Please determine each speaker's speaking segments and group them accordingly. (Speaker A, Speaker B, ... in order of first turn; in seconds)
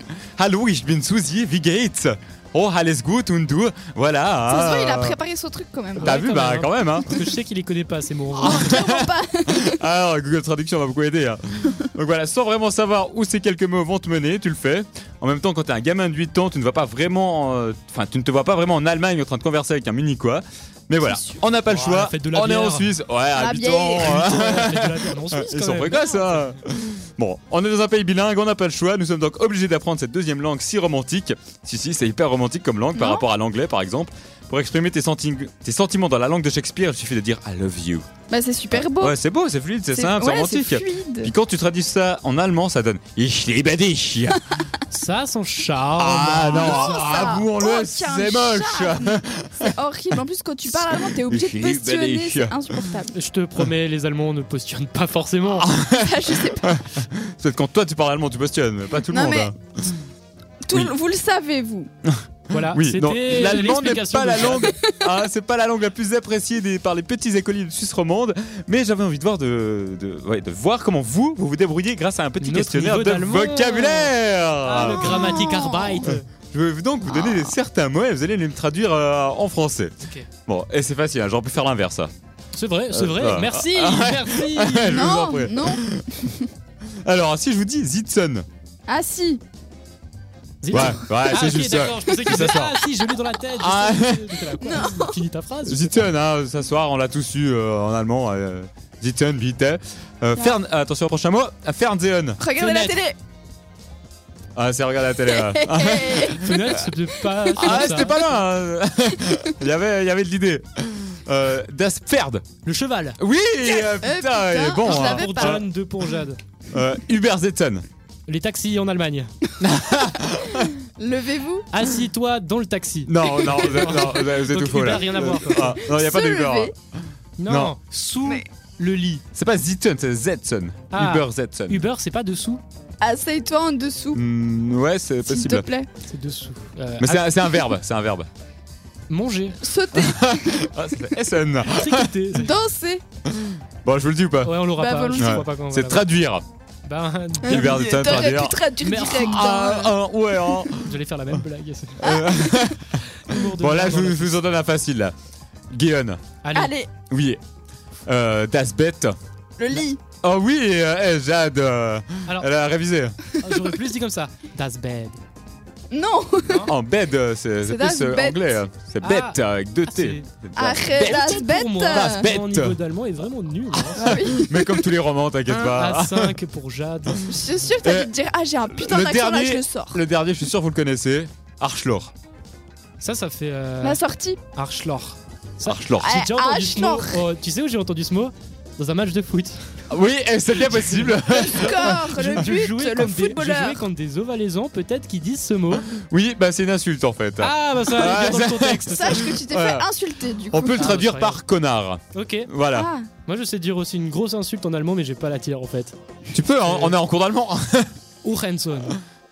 Speaker A: 0.4-5.2, 6.0-7.1, 8.4-38.0, 38.7-44.5, 46.0-49.8, 50.7-52.8, 55.6-60.0, 62.0-75.5, 76.0-79.9, 80.5-82.1, 82.9-86.2, 87.0-88.4, 90.7-92.8, 93.5-94.4, 95.7-102.4, 104.5-106.8, 107.6-112.4, 113.2-115.6, 116.7-117.8, 119.6-120.7, 123.1-126.7, 127.5-127.8, 129.3-131.8, 134.1-135.7, 137.0-138.3, 139.9-142.1, 143.3-144.5, 145.2-146.4, 147.4-151.0, 152.0-155.1, 155.7-156.2, 157.1-157.4, 158.1-159.1, 160.2-163.2, 166.7-172.8, 173.9-176.4, 177.8-178.1, 178.7-182.1, 185.7-186.1, 189.9-192.5, 195.9-199.9, 200.5-202.9, 206.3-207.9
Speaker B: 4.5-6.2, 8.3-9.8, 21.1-21.4, 23.3-24.2, 32.9-33.2, 38.3-39.2, 39.9-41.3, 46.5-53.1, 55.9-56.9, 59.1-59.5, 60.6-61.9, 64.7-65.0, 74.8-76.1, 77.1-77.5, 84.9-86.5, 88.9-89.4, 94.6-95.2, 102.4-103.2, 105.3-106.6, 107.6-108.1, 113.6-115.6, 120.6-121.7, 123.2-124.1, 125.5-126.7, 133.0-134.2, 135.2-135.9, 139.6-140.7, 142.3-143.0, 144.8-145.4, 147.4-149.8, 152.0-152.8, 156.5-156.9, 159.6-160.0, 165.9-166.7, 167.6-168.6, 170.6-172.3, 173.9-174.8, 177.2-180.0, 183.8-184.4, 186.0-187.2, 191.3-193.8, 198.9-201.0, 202.7-203.1
Speaker C: 6.0-8.8, 21.6-23.0, 24.0-26.6, 44.9-47.0, 53.1-55.7, 62.5-64.7, 72.4-76.2, 82.5-85.1, 90.6-96.1, 102.6-103.0, 106.4-108.2, 112.6-113.2, 114.8-116.4, 118.3-119.3, 121.7-125.8, 127.4-129.2, 130.9-132.6, 136.1-137.4, 139.1-139.6, 141.7-142.5, 144.4-146.0, 146.8-149.9, 150.7-152.0, 153.2-154.4, 156.4-156.7, 163.4-165.2, 166.5-166.7, 169.0-170.3, 170.9-174.2, 175.5-177.6, 183.0-184.0, 184.6-189.6, 190.6-195.9, 197.4-199.3, 200.7-201.4, 202.1-202.5, 203.2-205.9, 206.6-206.9, 208.2-209.0